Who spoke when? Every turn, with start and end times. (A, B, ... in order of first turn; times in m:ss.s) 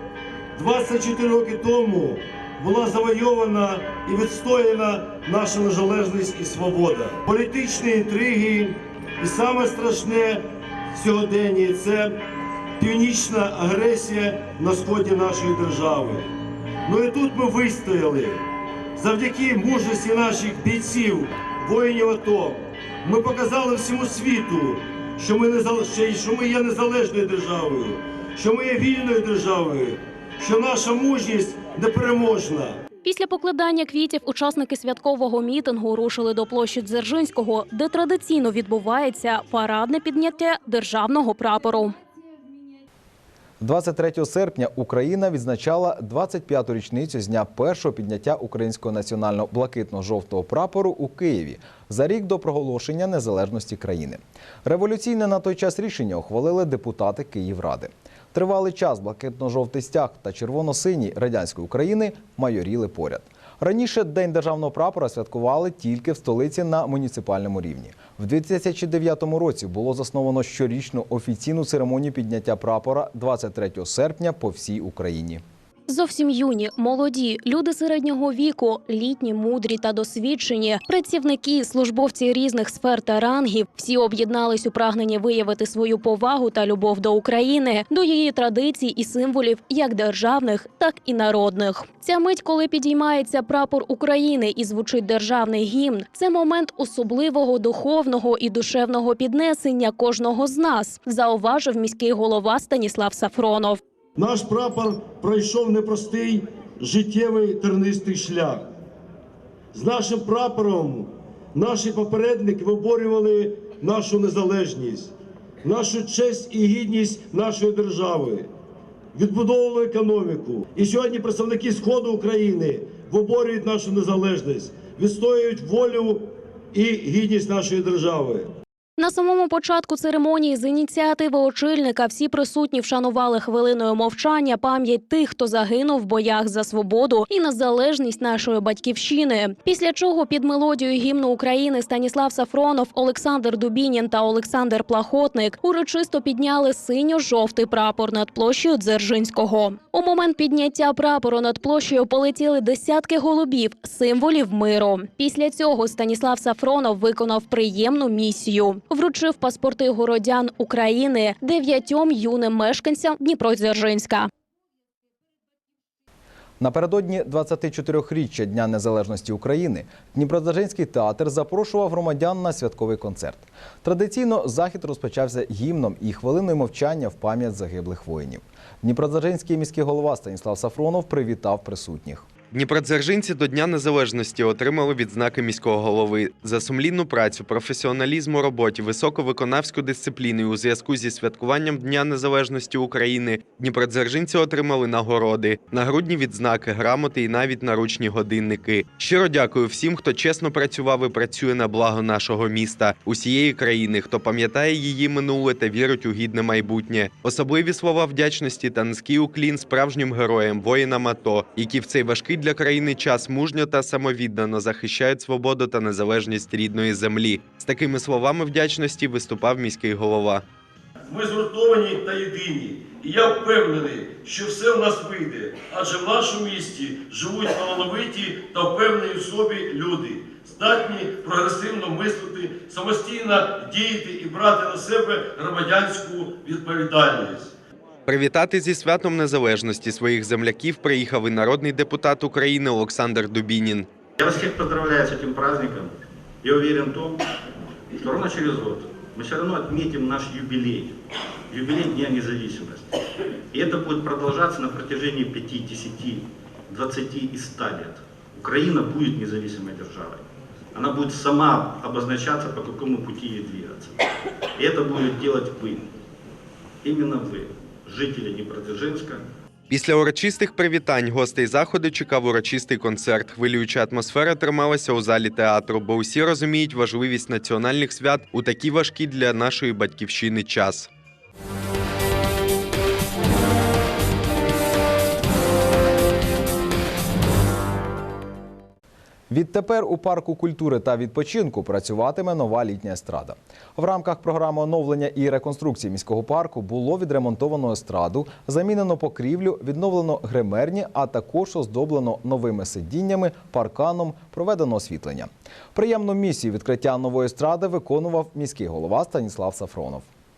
0:00.6-0:12.2 A
0:12.8-0:16.3 A
0:16.8-0:18.4 A
0:19.0-0:32.8 A
0:33.0-0:41.9 B
0:43.6-1:15.4 C
1:15.9-1:43.8 B
1:44.2-1:48.7 A
1:49.7-1:58.5 A
1:59.1-2:08.5 A
2:09.0-2:44.3 B
2:46.6-3:02.3 C
3:02.5-3:40.4 D
3:41.1-3:57.5 A
3:58.1-4:03.9 D
4:04.2-4:07.2 E
4:07.9-4:11.0 E
4:11.5-4:12.9 E
4:13.5-4:23.9 E
4:24.6-4:25.9 E
4:26.8-4:29.2 E
4:29.7-4:40.9 D
4:49.3-5:10.1 C